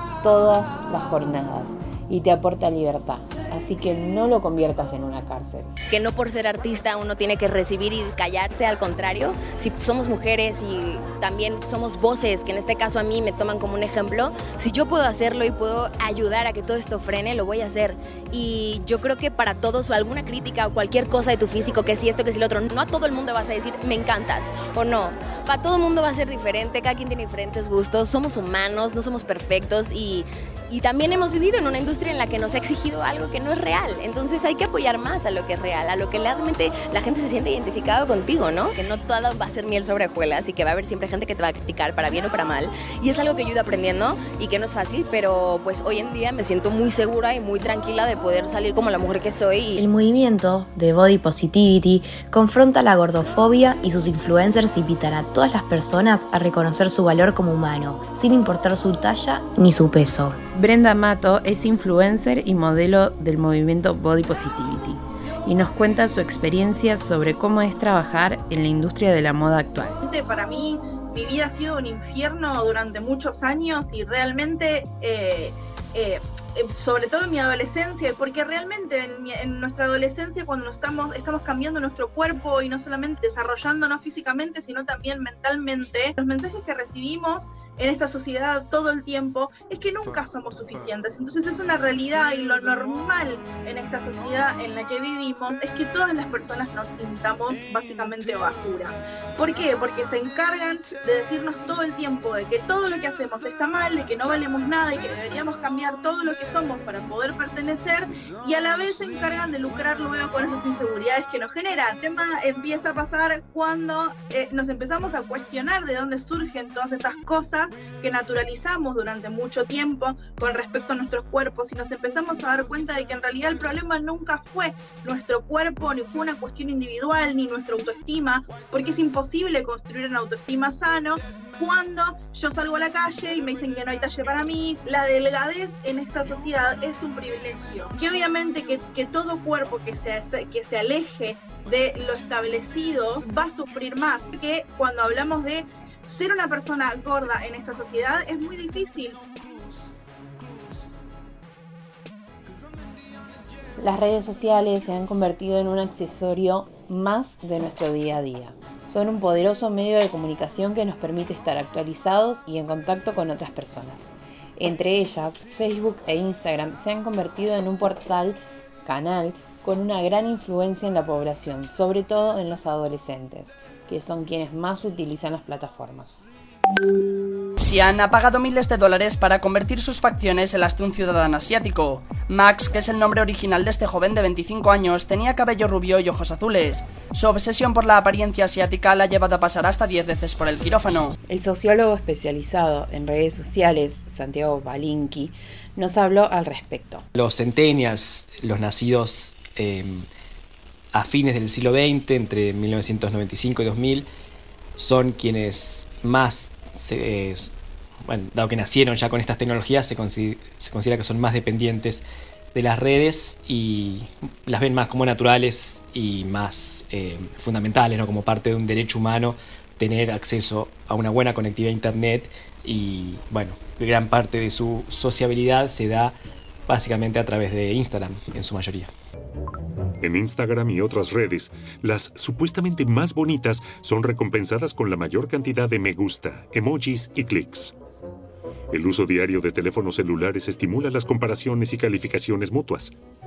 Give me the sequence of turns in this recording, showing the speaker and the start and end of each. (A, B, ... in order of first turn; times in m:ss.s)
0:00.2-0:05.7 A
0:05.9-0:41.3 B
0:42.4-0:49.5 B
0:49.8-1:00.4 C
1:00.5-1:10.0 A
1:10.0-2:29.2 D
2:33.8-2:56.2 A
2:57.6-3:11.1 E
3:11.3-3:17.0 A
3:17.1-3:20.0 F
3:20.9-3:24.0 F
3:24.8-3:27.5 F
3:28.1-3:32.0 F
3:32.5-3:46.1 F
3:46.7-3:48.9 F
3:50.0-3:57.7 G
3:58.7-4:02.9 G